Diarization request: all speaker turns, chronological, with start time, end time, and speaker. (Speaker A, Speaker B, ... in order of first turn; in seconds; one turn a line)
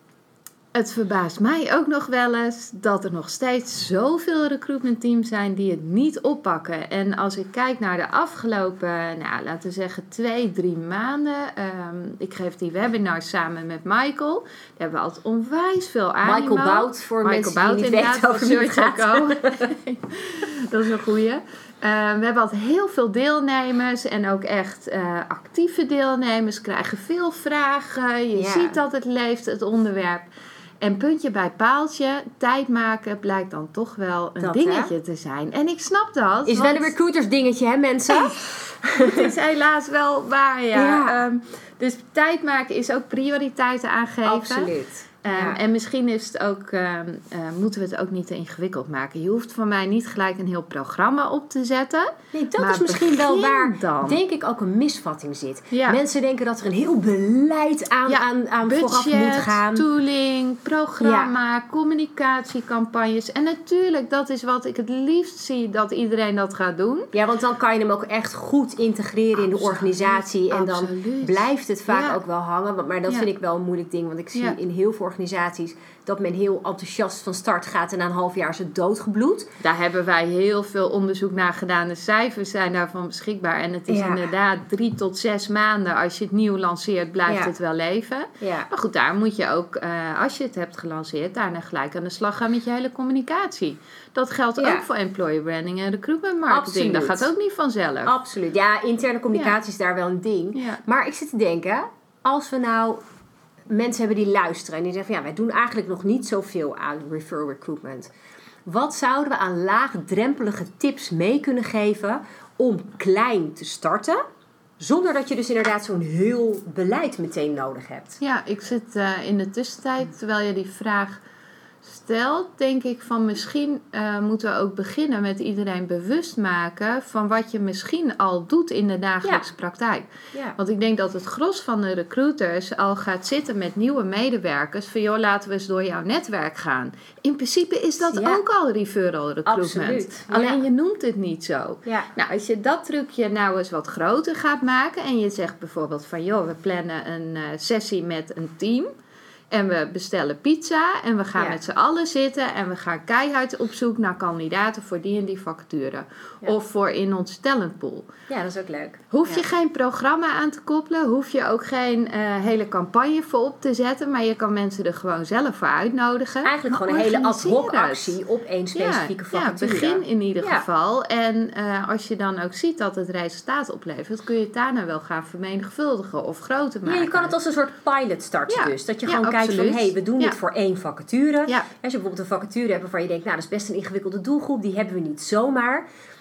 Speaker A: 0.7-30.3
Speaker B: 16.2-19.7
Speaker B: 28.3-28.8
Speaker A: 30.8-36.9
Speaker B: 34.4-34.9
Speaker B: 36.5-39.3
Speaker A: 38.1-38.4
Speaker A: 39.0-44.7
Speaker B: 40.7-41.2
Speaker B: 44.2-45.6
Speaker A: 45.2-54.2
Speaker B: 52.3-59.9
Speaker A: 55.7-56.0
Speaker A: 58.1-67.1
Speaker B: 61.0-61.3
Speaker B: 67.1-79.5
Speaker A: 69.4-72.2
Speaker A: 79.6-98.1
Speaker B: 83.9-84.2
Speaker B: 87.3-87.5
Speaker B: 88.4-88.7
Speaker B: 94.6-94.8
Speaker B: 96.5-97.3
Speaker B: 98.0-103.0
Speaker A: 100.5-100.8
Speaker B: 103.7-108.1
Speaker B: 108.7-114.2
Speaker B: 114.8-118.2
Speaker A: 118.2-121.2
Speaker A: 121.8-148.9
Speaker B: 138.0-138.4
Speaker B: 139.4-140.6
Speaker A: 149.5-158.1
Speaker B: 158.3-159.4
Speaker A: 159.1-168.2
Speaker B: 166.4-170.6
Speaker A: 168.7-177.3
Speaker B: 176.8-185.8
Speaker A: 178.5-180.4